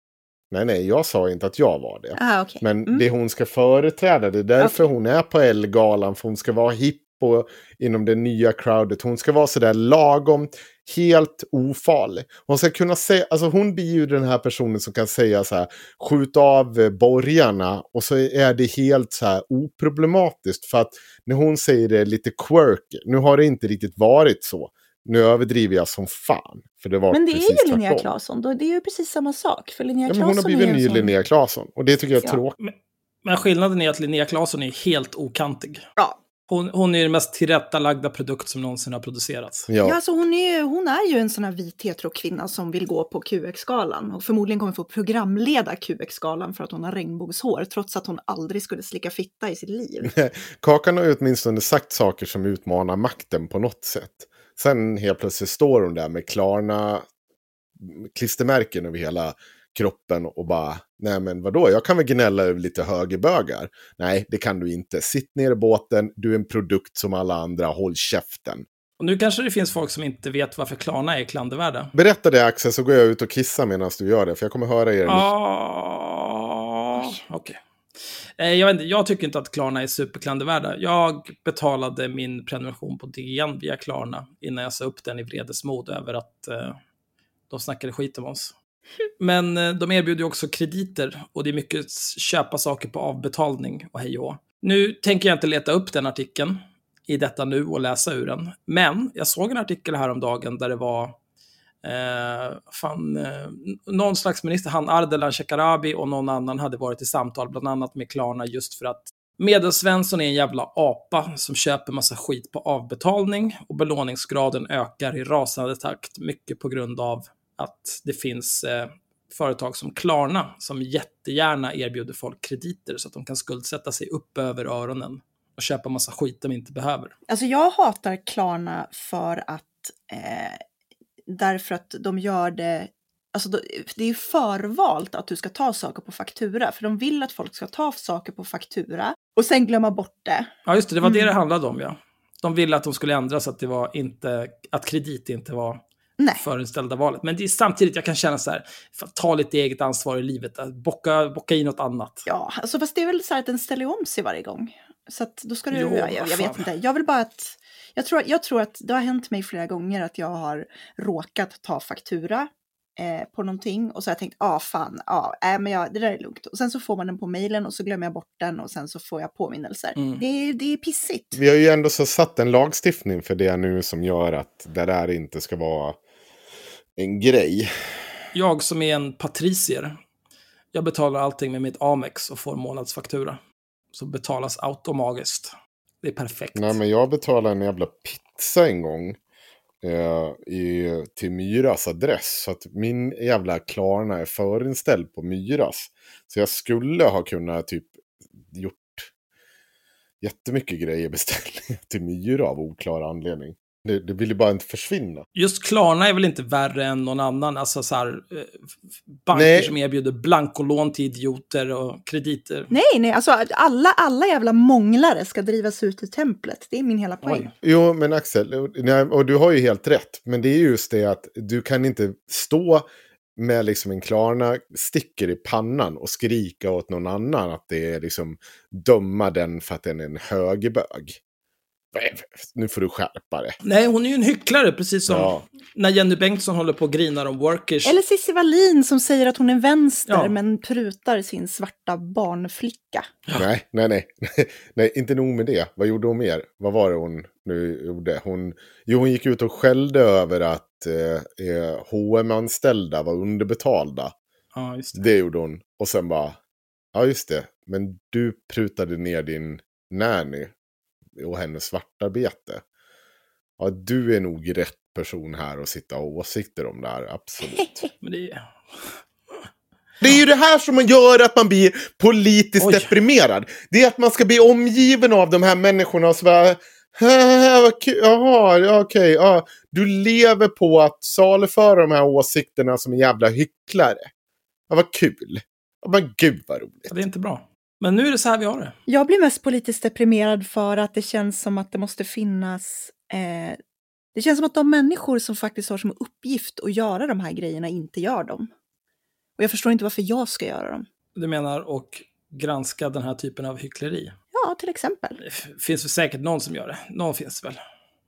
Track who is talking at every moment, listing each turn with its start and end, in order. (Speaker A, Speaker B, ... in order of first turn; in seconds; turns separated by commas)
Speaker A: 0.5-28.1, Speaker B: 2.1-3.0, Speaker B: 4.6-4.9, Speaker B: 27.1-31.1, Speaker A: 30.1-32.5, Speaker C: 32.6-35.8, Speaker C: 36.5-39.7, Speaker A: 39.7-40.0, Speaker B: 39.8-50.1, Speaker A: 50.1-57.0, Speaker A: 57.8-68.6, Speaker C: 69.0-71.9, Speaker A: 71.9-75.3, Speaker C: 75.0-77.6, Speaker C: 78.4-86.8, Speaker C: 87.5-88.5, Speaker C: 89.2-101.2, Speaker C: 101.8-127.1, Speaker B: 127.3-130.6, Speaker B: 131.3-140.5, Speaker C: 140.7-145.8, Speaker B: 141.0-141.3, Speaker B: 146.2-146.4, Speaker C: 146.4-152.3, Speaker B: 152.3-171.4, Speaker C: 155.7-156.7, Speaker C: 170.0-170.2, Speaker A: 171.3-176.0, Speaker A: 176.9-177.7, Speaker C: 178.3-180.0, Speaker C: 180.7-183.4, Speaker C: 183.9-186.8, Speaker A: 186.5-189.2, Speaker A: 189.8-197.9, Speaker A: 198.5-199.1, Speaker A: 200.2-205.2, Speaker C: 205.3-208.6, Speaker C: 209.1-212.7, Speaker A: 209.3-209.7, Speaker B: 212.7-217.5, Speaker C: 217.2-217.5, Speaker A: 217.6-231.2, Speaker A: 231.9-233.5, Speaker C: 233.6-238.0, Speaker A: 235.1-235.4, Speaker B: 237.8-243.1, Speaker C: 240.1-240.3, Speaker A: 243.3-254.1, Speaker C: 254.5-255.0, Speaker A: 254.9-256.4, Speaker A: 256.9-260.5, Speaker A: 261.2-262.6, Speaker A: 263.6-267.9, Speaker C: 268.0-269.0, Speaker A: 270.0-284.1, Speaker C: 272.6-272.9, Speaker A: 284.7-286.9, Speaker C: 286.9-288.7, Speaker B: 288.9-293.6, Speaker B: 294.1-298.5, Speaker B: 299.4-300.9, Speaker C: 301.1-304.1, Speaker B: 304.3-305.2, Speaker C: 305.2-307.6